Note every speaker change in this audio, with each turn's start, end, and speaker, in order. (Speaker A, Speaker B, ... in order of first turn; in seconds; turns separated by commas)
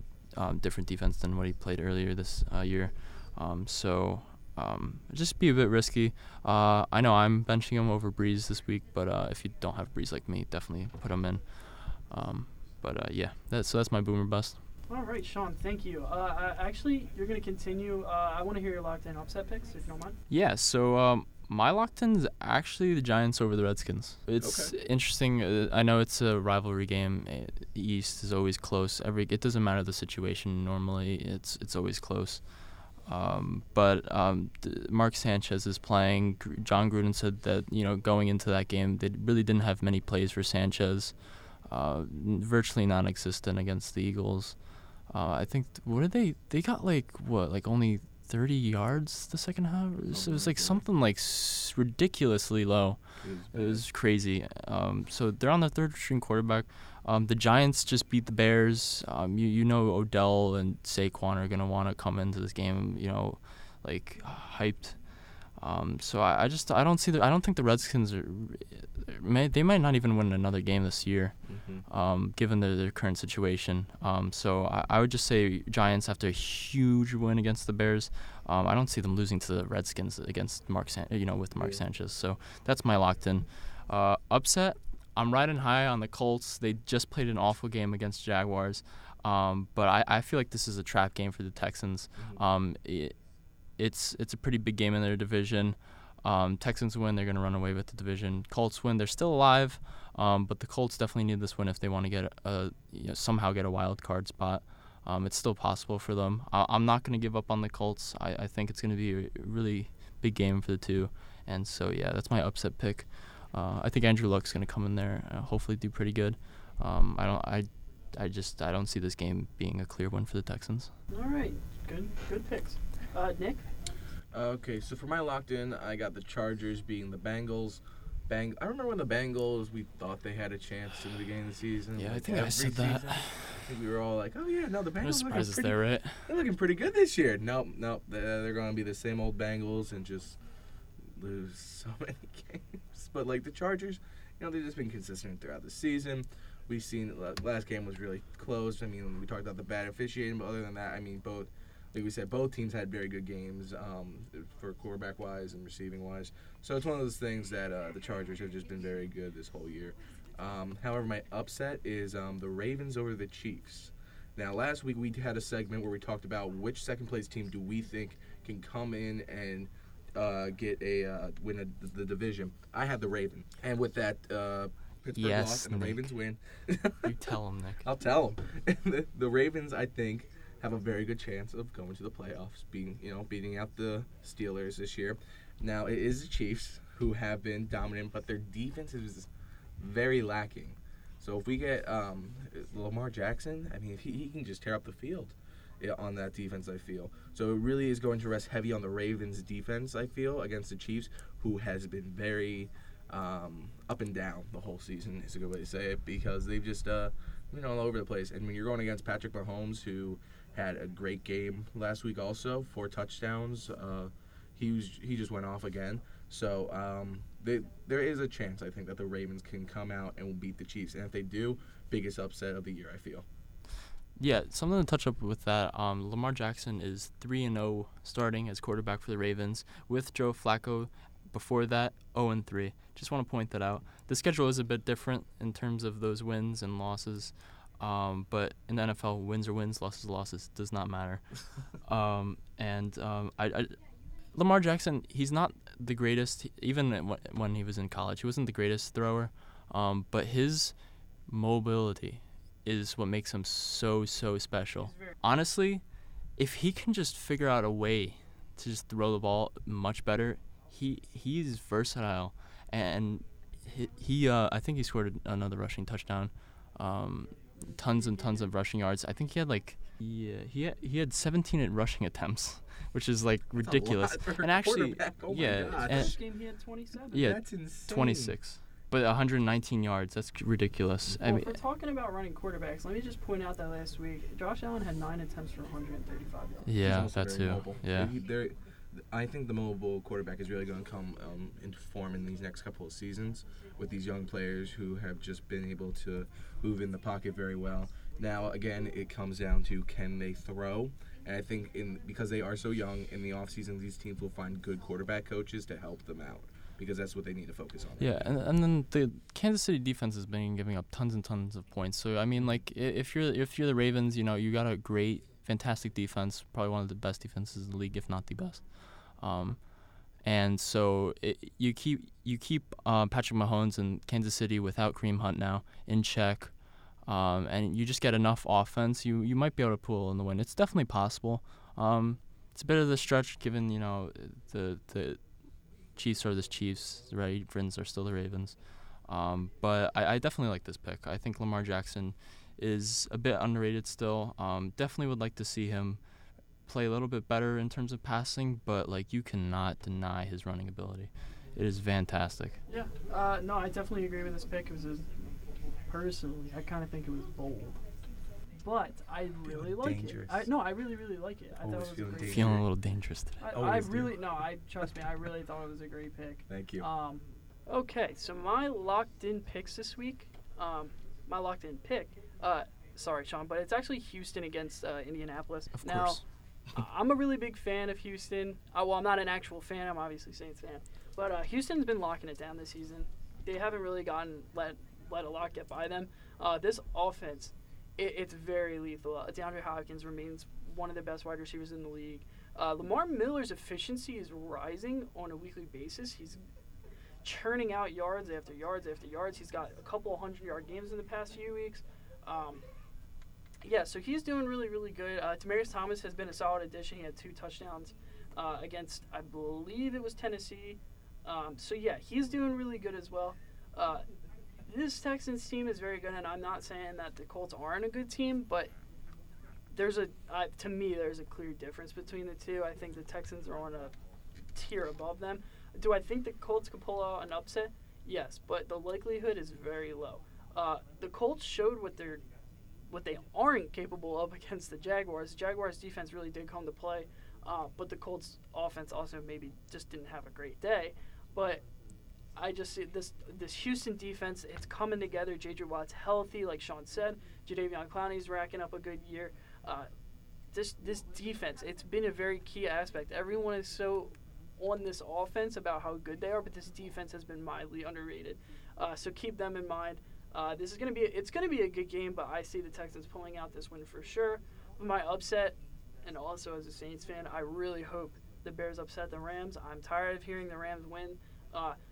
Speaker A: 0.3-14.6, Speaker B: 14.9-20.2, Speaker A: 20.3-93.1, Speaker C: 24.4-24.7, Speaker C: 50.1-50.8, Speaker C: 53.2-53.9, Speaker C: 71.5-71.8, Speaker C: 81.6-81.8, Speaker C: 92.2-92.4, Speaker A: 93.8-120.9, Speaker B: 121.1-123.7, Speaker C: 124.3-140.4, Speaker A: 131.9-133.6, Speaker A: 135.0-136.3, Speaker C: 141.1-223.2, Speaker A: 175.2-176.1, Speaker A: 177.0-177.8, Speaker A: 224.2-243.8, Speaker A: 244.3-250.8, Speaker A: 251.3-255.8, Speaker A: 256.4-276.2, Speaker B: 267.6-268.2, Speaker C: 273.6-276.1, Speaker B: 275.8-277.3, Speaker A: 277.1-281.5, Speaker C: 277.1-278.4, Speaker B: 281.2-286.7, Speaker A: 286.6-288.1, Speaker C: 286.8-308.3, Speaker A: 308.0-335.4, Speaker A: 335.9-346.0, Speaker A: 346.7-352.6, Speaker B: 352.7-355.2, Speaker B: 355.9-357.8, Speaker B: 358.6-362.6, Speaker C: 359.4-360.5, Speaker C: 361.6-362.7, Speaker A: 362.2-363.4, Speaker B: 363.4-396.4, Speaker C: 363.5-364.2, Speaker C: 366.5-366.9, Speaker A: 375.8-376.2, Speaker B: 397.2-402.6, Speaker B: 403.6-414.0, Speaker B: 414.6-418.7, Speaker B: 419.7-423.9, Speaker B: 424.5-432.2, Speaker B: 432.9-441.6, Speaker B: 442.3-449.9, Speaker B: 450.5-471.8